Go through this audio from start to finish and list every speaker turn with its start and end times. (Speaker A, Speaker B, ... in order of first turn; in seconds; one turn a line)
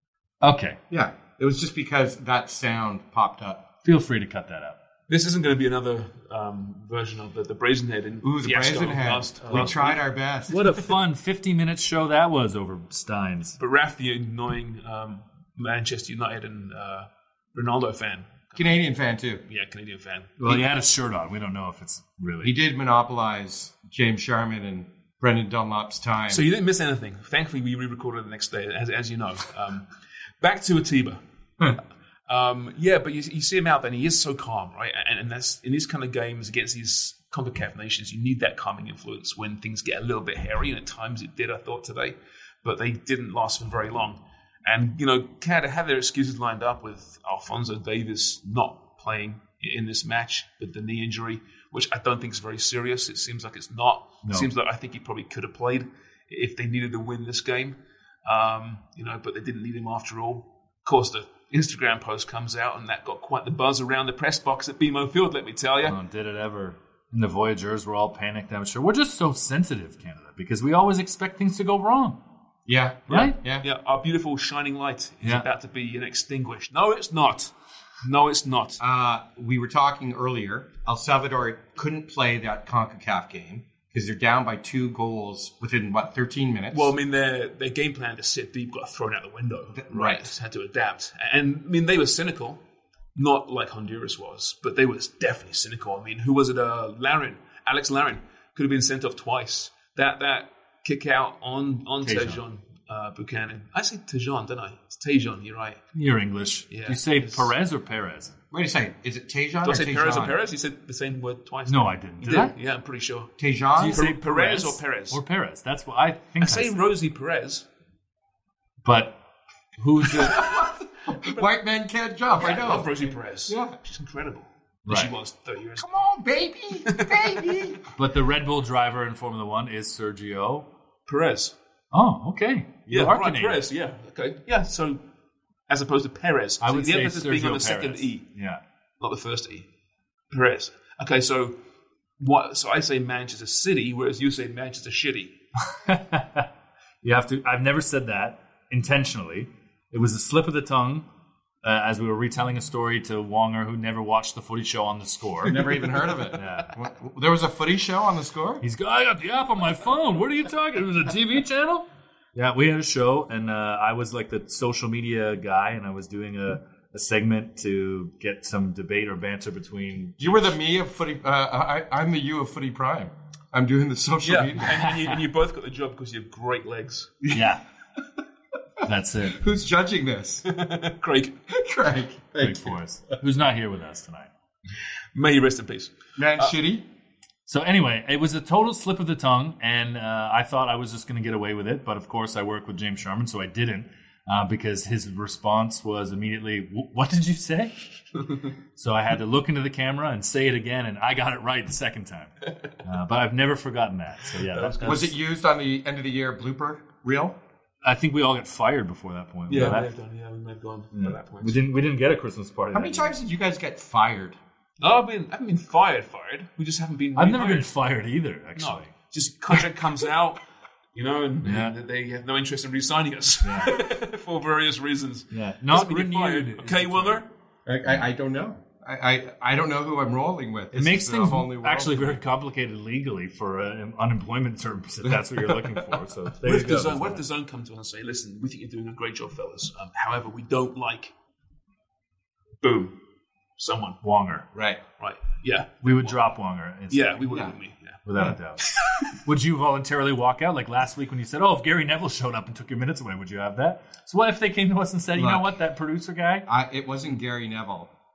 Speaker A: 0.4-0.8
Speaker B: 0.9-3.6
Speaker A: 3.8-4.8
Speaker C: 5.1-10.0
Speaker B: 8.2-10.6
Speaker A: 9.4-9.9
Speaker A: 10.5-13.6
Speaker C: 13.6-18.8
Speaker B: 18.6-19.4
Speaker C: 19.4-20.6
Speaker A: 20.4-22.5
Speaker B: 22.4-26.4
Speaker C: 26.3-31.2
Speaker C: 32.3-66.0
Speaker A: 65.8-72.2
Speaker B: 72.7-73.7
Speaker A: 73.1-73.4
Speaker C: 73.1-78.8
Speaker B: 78.8-86.9
Speaker C: 86.7-92.6
Speaker B: 89.8-90.3
Speaker C: 93.2-105.8
Speaker A: 102.0-102.4
Speaker A: 105.9-108.4
Speaker C: 106.7-107.5
Speaker B: 108.5-110.4
Speaker C: 109.6-113.3
Speaker A: 111.7-112.5
Speaker B: 113.4-114.0
Speaker A: 113.8-116.7
Speaker C: 113.9-115.2
Speaker C: 116.4-117.7
Speaker A: 118.8-119.2
Speaker A: 119.8-120.4
Speaker B: 120.1-123.8
Speaker C: 122.3-125.9
Speaker A: 124.9-125.1
Speaker B: 125.8-127.8
Speaker C: 126.9-127.7
Speaker A: 127.9-130.7
Speaker C: 131.1-131.6
Speaker A: 131.9-133.6
Speaker C: 132.9-135.0
Speaker C: 135.7-138.3
Speaker A: 136.6-138.6
Speaker C: 139.0-139.7
Speaker C: 140.3-141.6
Speaker C: 142.2-145.4
Speaker A: 145.7-146.5
Speaker A: 147.0-151.1
Speaker A: 151.6-155.7
Speaker B: 155.5-158.6
Speaker A: 156.3-156.7
Speaker A: 158.6-170.3
Speaker B: 170.2-174.8
Speaker C: 174.2-177.2
Speaker A: 177.3-177.6
Speaker A: 178.8-179.4
Speaker B: 179.3-180.5
Speaker C: 180.5-181.4
Speaker B: 181.5-182.8
Speaker A: 182.4-184.3
Speaker C: 185.1-186.5
Speaker B: 186.2-186.8
Speaker A: 187.5-197.8
Speaker A: 198.8-205.1
Speaker C: 204.4-205.1
Speaker B: 204.8-207.4
Speaker A: 207.8-209.9
Speaker C: 209.5-211.6
Speaker A: 210.9-213.1
Speaker B: 212.7-214.4
Speaker C: 214.8-217.7
Speaker A: 217.2-218.9
Speaker C: 218.6-220.4
Speaker C: 220.9-227.3
Speaker A: 221.4-221.8
Speaker A: 223.4-223.8
Speaker A: 225.3-227.2
Speaker B: 227.7-232.2
Speaker A: 230.7-237.2
Speaker B: 235.4-235.8
Speaker C: 236.4-241.1
Speaker C: 242.6-243.0
Speaker C: 243.6-244.0
Speaker A: 244.0-244.5
Speaker B: 244.5-244.8
Speaker C: 245.0-246.2
Speaker A: 245.8-247.3
Speaker C: 246.9-248.0
Speaker B: 247.3-247.6
Speaker A: 248.1-256.5
Speaker C: 248.6-249.0
Speaker B: 255.2-255.5
Speaker B: 256.5-257.9